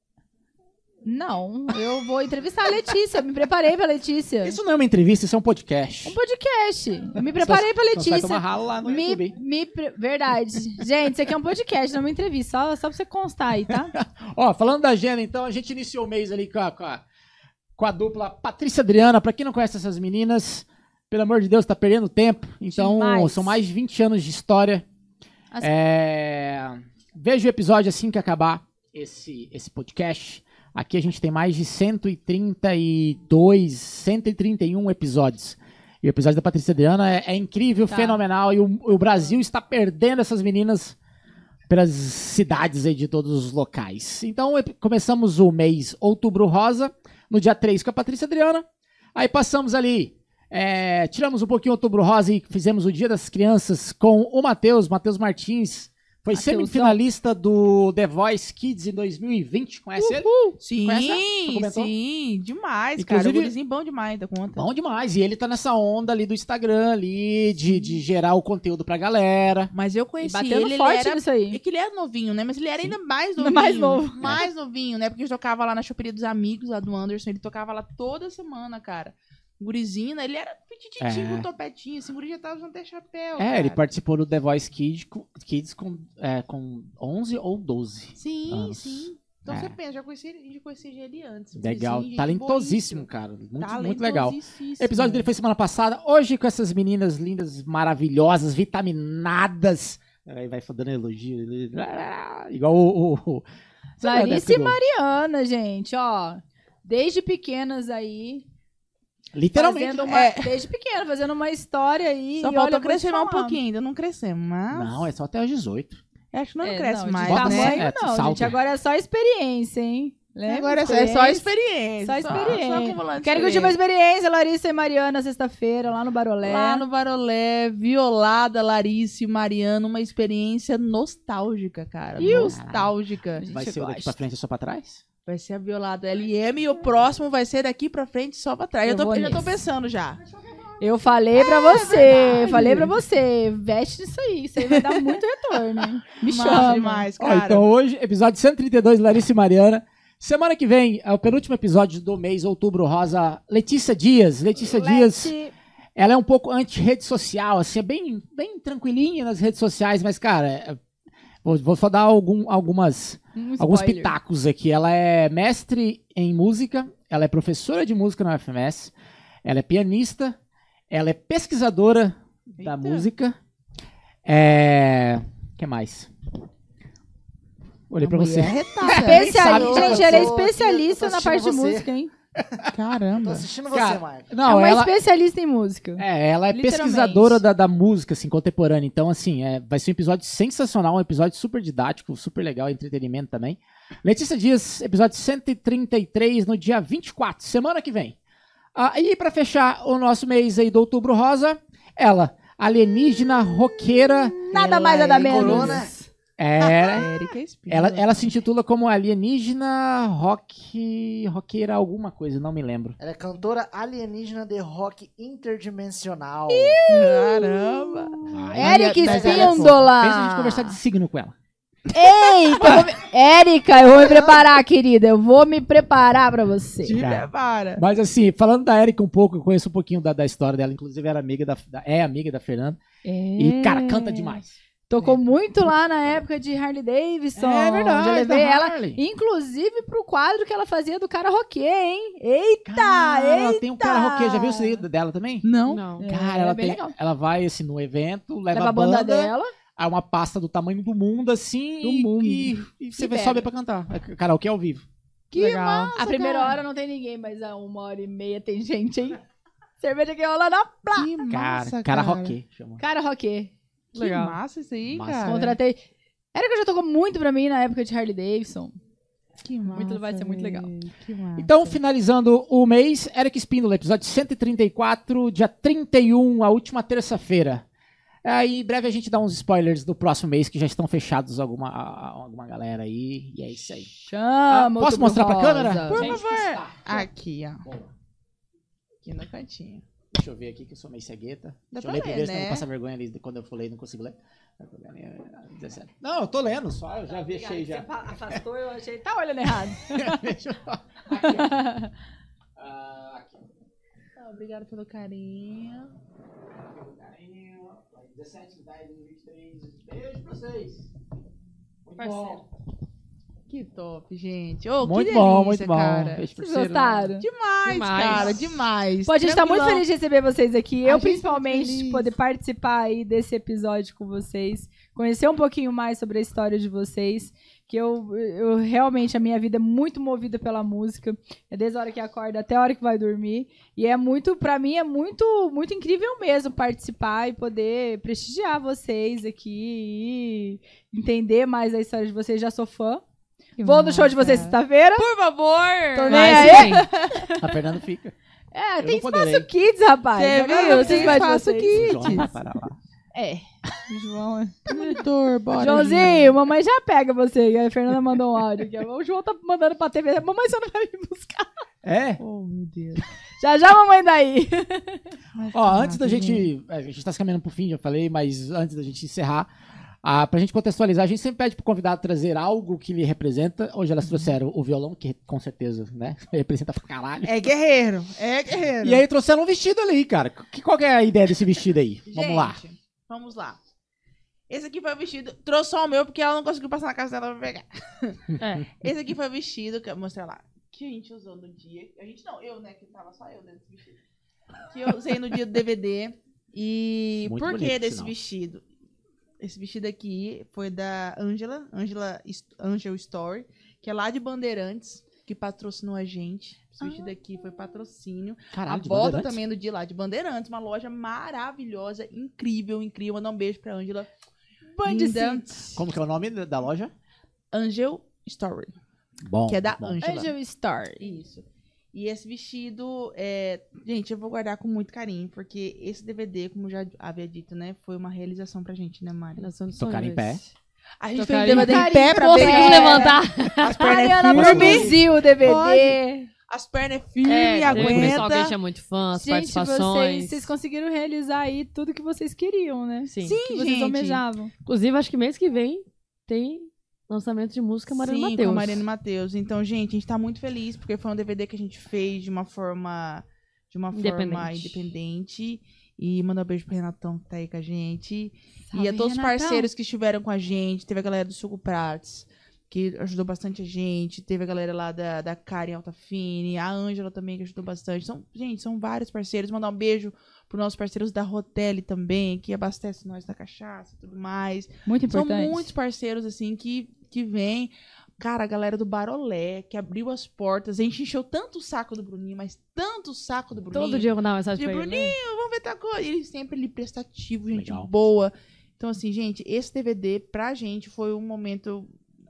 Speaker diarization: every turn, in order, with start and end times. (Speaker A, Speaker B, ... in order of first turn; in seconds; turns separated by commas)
Speaker A: 1.1-4.6, Speaker B: 4.4-6.2, Speaker A: 6.0-13.9, Speaker B: 7.3-9.4, Speaker B: 13.9-17.0, Speaker B: 17.8-24.9, Speaker A: 22.7-23.6, Speaker B: 25.6-41.0, Speaker A: 37.9-38.2, Speaker B: 41.7-61.9, Speaker A: 56.3-57.0, Speaker A: 60.0-60.6, Speaker C: 60.6-64.7, Speaker B: 63.0-63.5, Speaker B: 64.6-69.7, Speaker C: 69.7-83.8, Speaker A: 70.2-71.6, Speaker A: 73.4-74.2, Speaker B: 74.2-74.5, Speaker B: 81.0-81.5, Speaker B: 83.4-89.8, Speaker C: 88.2-95.3, Speaker B: 91.6-103.5, Speaker B: 104.0-104.8, Speaker A: 104.0-108.5, Speaker B: 109.3-110.2, Speaker A: 109.5-113.6, Speaker C: 110.0-110.6, Speaker C: 112.4-115.1, Speaker B: 114.7-116.0, Speaker C: 116.3-117.9, Speaker A: 116.6-121.5, Speaker B: 117.3-118.6, Speaker C: 120.5-123.8, Speaker A: 122.0-126.9, Speaker C: 126.4-133.5, Speaker A: 132.2-132.6, Speaker B: 132.2-132.9, Speaker A: 133.4-134.2, Speaker B: 133.5-135.0, Speaker C: 135.3-140.2, Speaker A: 138.8-139.5, Speaker A: 140.8-147.1, Speaker C: 141.4-142.9, Speaker C: 144.7-145.2, Speaker C: 146.2-147.7, Speaker B: 147.2-155.3, Speaker A: 154.6-155.5, Speaker B: 156.0-160.8, Speaker B: 161.4-168.9, Speaker A: 163.4-164.2, Speaker B: 169.4-170.4, Speaker B: 170.9-173.4, Speaker C: 172.6-173.1, Speaker B: 174.2-176.1, Speaker B: 177.9-180.3, Speaker C: 178.0-180.2, Speaker A: 178.8-182.1, Speaker D: 179.3-181.9, Speaker C: 182.7-183.5, Speaker D: 183.2-184.3, Speaker B: 183.7-185.0, Speaker A: 184.4-187.4, Speaker B: 186.0-198.2, Speaker B: 198.8-204.6, Speaker A: 204.3-206.1, Speaker D: 204.6-205.9, Speaker C: 205.0-205.9, Speaker B: 205.2-205.8, Speaker B: 206.4-207.1, Speaker C: 206.8-208.3, Speaker B: 207.7-213.0, Speaker D: 213.0-216.8, Speaker A: 216.5-220.8, Speaker C: 216.9-219.8, Speaker B: 218.3-221.4, Speaker D: 218.8-219.8, Speaker A: 221.9-227.0, Speaker B: 222.6-222.9, Speaker D: 223.9-224.4, Speaker C: 226.8-227.8, Speaker B: 227.0-232.8, Speaker A: 233.0-244.8, Speaker B: 233.4-235.2, Speaker B: 237.4-239.0, Speaker B: 242.7-245.5, Speaker C: 245.4-245.9, Speaker E: 245.7-246.1, Speaker A: 246.0-246.9, Speaker B: 246.1-254.9, Speaker A: 248.5-249.5, Speaker A: 251.8-253.5, Speaker E: 255.3-256.0, Speaker A: 255.3-259.2, Speaker C: 255.4-256.6, Speaker A: 259.8-261.1, Speaker C: 260.9-262.4, Speaker B: 261.3-262.8, Speaker A: 262.8-263.5, Speaker E: 263.9-264.4, Speaker C: 263.9-265.6, Speaker B: 264.9-265.4, Speaker A: 265.2-265.8, Speaker A: 266.3-268.8, Speaker C: 269.4-271.8, Speaker A: 269.7-270.7, Speaker B: 271.4-277.6, Speaker B: 278.2-287.1, Speaker A: 284.1-286.0, Speaker C: 285.9-287.6, Speaker B: 287.6-287.9, Speaker C: 289.0-289.8, Speaker B: 290.1-297.9, Speaker C: 291.7-292.6, Speaker A: 297.1-300.3, Speaker B: 299.9-301.7, Speaker A: 301.1-301.9, Speaker B: 302.6-303.5, Speaker C: 304.2-305.9, Speaker B: 306.5-310.9, Speaker B: 311.9-312.5, Speaker E: 312.0-312.4, Speaker C: 313.5-316.2, Speaker B: 314.8-317.1, Speaker A: 316.4-317.2, Speaker C: 317.2-319.9, Speaker E: 317.6-318.5, Speaker A: 319.1-343.0, Speaker C: 320.8-322.1, Speaker E: 343.6-344.1, Speaker A: 343.6-345.1, Speaker C: 343.7-347.3, Speaker A: 345.9-347.6, Speaker E: 346.1-346.9, Speaker B: 347.4-348.1, Speaker A: 348.5-352.0, Speaker B: 348.8-349.5, Speaker C: 350.2-352.3, Speaker B: 350.7-352.8, Speaker C: 353.1-353.5, Speaker A: 353.9-355.0, Speaker C: 354.7-356.4, Speaker A: 355.5-361.5, Speaker B: 361.8-362.2, Speaker C: 362.2-363.0, Speaker A: 363.4-365.1, Speaker C: 365.4-366.5, Speaker B: 365.5-369.5, Speaker B: 370.0-377.3, Speaker C: 377.2-379.0, Speaker B: 378.8-382.6, Speaker C: 382.1-383.6, Speaker C: 384.5-394.0, Speaker E: 388.4-388.7, Speaker C: 394.7-398.6, Speaker B: 397.2-398.1, Speaker C: 399.4-414.1, Speaker A: 406.8-407.1, Speaker B: 408.5-409.4, Speaker A: 414.8-415.8, Speaker C: 414.8-415.5, Speaker B: 415.8-416.9, Speaker C: 417.5-418.7, Speaker B: 419.2-420.1, Speaker C: 419.5-420.3, Speaker A: 420.0-421.1, Speaker C: 421.0-429.5, Speaker E: 429.4-430.5, Speaker B: 429.8-430.4, Speaker C: 431.0-438.6, Speaker E: 431.1-434.9, Speaker A: 431.4-436.3, Speaker B: 434.3-435.0, Speaker E: 437.2-440.5, Speaker B: 437.6-438.3, Speaker A: 439.1-444.5, Speaker E: 443.1-443.4, Speaker C: 443.2-444.2, Speaker E: 444.6-448.8, Speaker C: 447.9-491.9, Speaker E: 453.9-454.8, Speaker A: 458.7-459.7, Speaker A: 474.9-475.7, Speaker E: 483.7-485.2, Speaker B: 487.5-487.9